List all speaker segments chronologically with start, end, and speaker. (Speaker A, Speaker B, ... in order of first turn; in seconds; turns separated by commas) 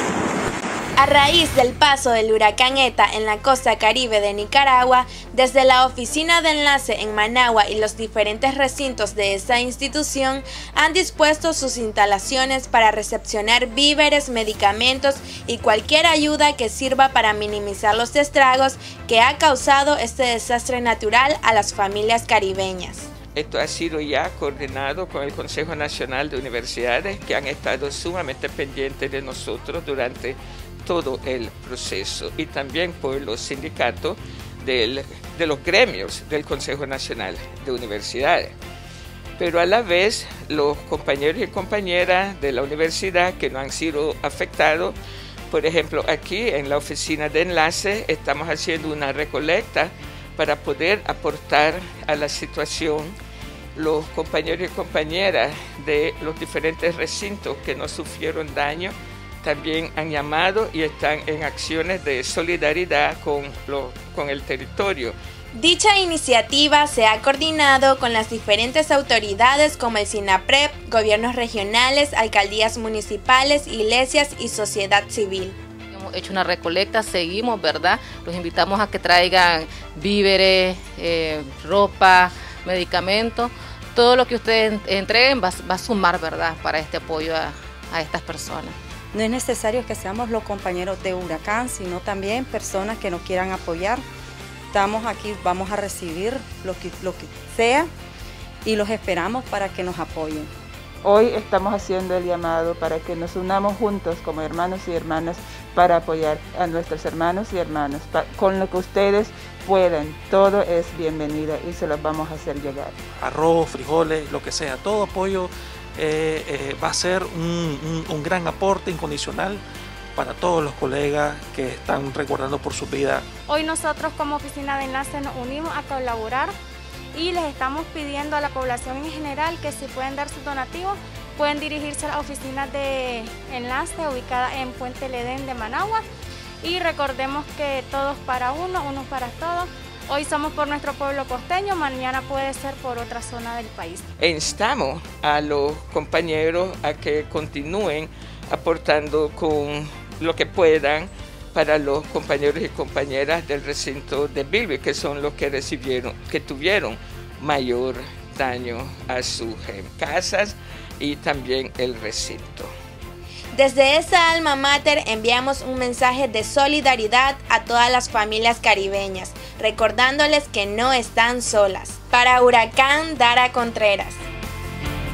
Speaker A: 1.0-23.1, Speaker B: 23.3-38.5, Speaker B: 39.4-45.0, Speaker B: 45.5-53.2, Speaker B: 53.7-65.2, Speaker A: 65.5-75.6, Speaker C: 75.9-88.8, Speaker D: 89.1-94.0, Speaker D: 94.7-97.9, Speaker D: 98.6-100.5, Speaker E: 101.0-112.9, Speaker F: 113.3-115.5, Speaker F: 116.0-119.6, Speaker F: 120.2-123.2, Speaker G: 123.5-126.5, Speaker G: 127.1-136.0, Speaker G: 136.6-144.0, Speaker B: 144.2-162.7, Speaker A: 163.5-174.2